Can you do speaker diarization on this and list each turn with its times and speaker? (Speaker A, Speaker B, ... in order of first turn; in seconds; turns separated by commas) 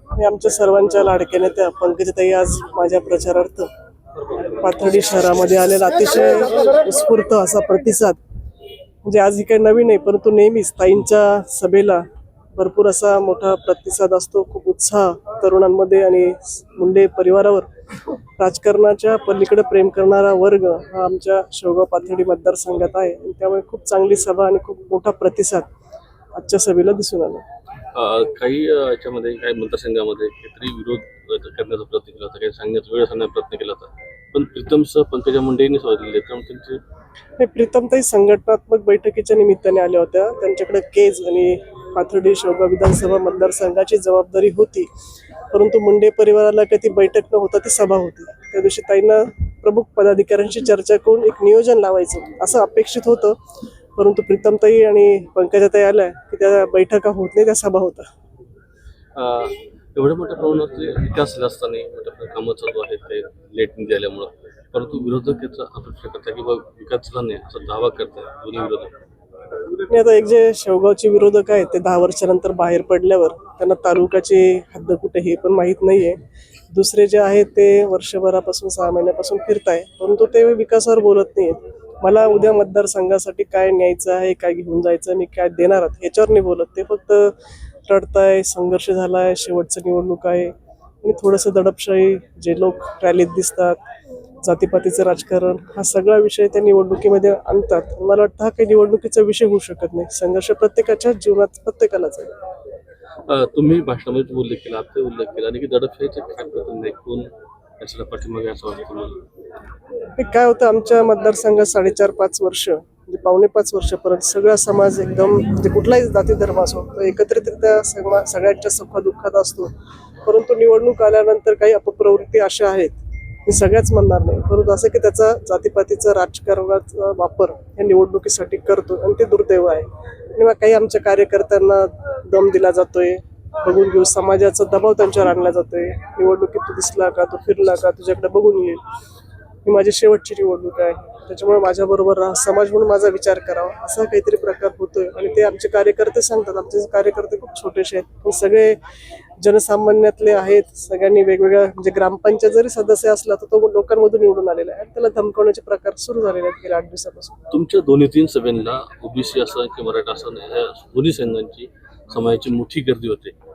Speaker A: 0.1-3.7, Speaker A: 4.6-8.2, Speaker A: 9.0-12.0, Speaker A: 12.6-17.7, Speaker A: 18.4-25.7, Speaker A: 26.3-27.4, Speaker B: 27.9-36.8, Speaker A: 37.4-44.9, Speaker A: 45.5-53.4, Speaker A: 54.0-58.1, Speaker B: 59.1-68.9, Speaker A: 69.9-87.3, Speaker A: 87.8-93.8, Speaker A: 94.4-102.3, Speaker B: 103.3-109.2, Speaker A: 110.2-119.7, Speaker A: 120.2-138.8, Speaker A: 139.6-148.8, Speaker A: 149.4-157.4, Speaker B: 157.5-163.3